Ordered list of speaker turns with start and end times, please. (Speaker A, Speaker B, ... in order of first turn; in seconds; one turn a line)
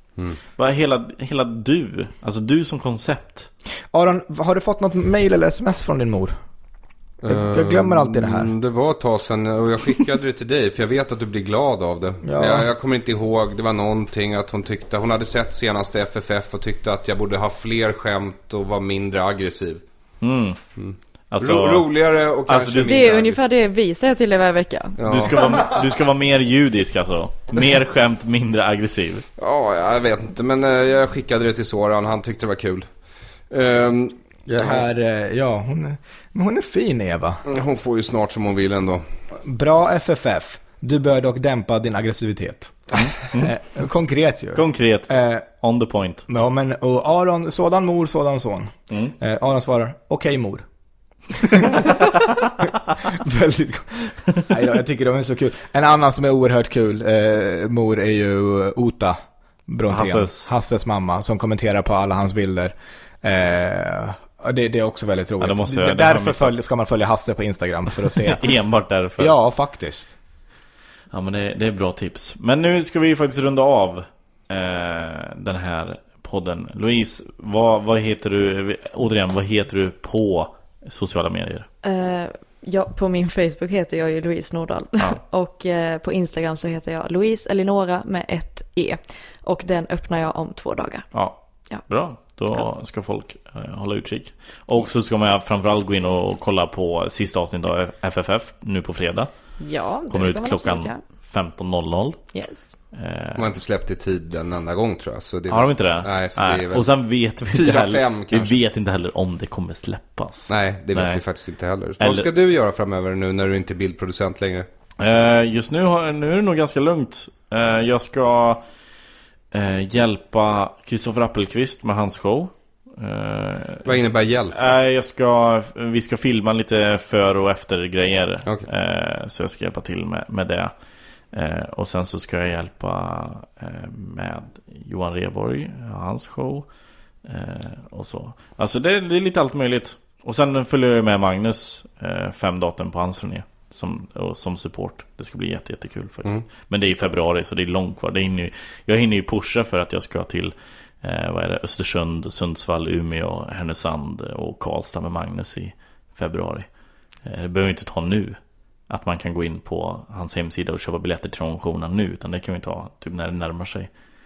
Speaker A: 0.6-3.5
Speaker B: 3.9-6.4
Speaker C: 7.2-19.8
Speaker B: 7.3-8.5
Speaker B: 12.2-12.7
Speaker A: 20.2-20.6
Speaker C: 20.8-23.4
Speaker A: 21.3-21.9
Speaker A: 22.4-23.1
Speaker D: 22.8-25.0
Speaker C: 25.0-25.6
Speaker A: 25.0-29.2
Speaker C: 29.4-32.9
Speaker C: 33.5-34.8
Speaker B: 34.5-37.4
Speaker C: 37.5-39.0
Speaker B: 39.4-45.5
Speaker A: 42.9-43.5
Speaker A: 44.5-46.2
Speaker B: 46.3-50.6
Speaker B: 51.4-52.1
Speaker B: 52.6-68.5
Speaker A: 59.9-60.5
Speaker A: 65.4-66.6
Speaker A: 68.2-69.3
Speaker B: 69.2-70.1
Speaker A: 71.1-81.7
Speaker D: 81.8-91.0
Speaker A: 91.1-99.3
Speaker D: 99.6-101.0
Speaker A: 100.1-102.2
Speaker D: 102.3-102.7
Speaker A: 102.9-103.5
Speaker C: 103.3-106.9
Speaker A: 105.5-111.2
Speaker C: 107.5-108.5
Speaker C: 110.5-114.7
Speaker A: 112.0-112.3
Speaker A: 115.0-118.6
Speaker A: 119.5-130.7
Speaker C: 123.8-124.5
Speaker A: 131.3-136.7
Speaker A: 137.2-156.7
Speaker A: 157.2-158.4
Speaker A: 158.9-163.9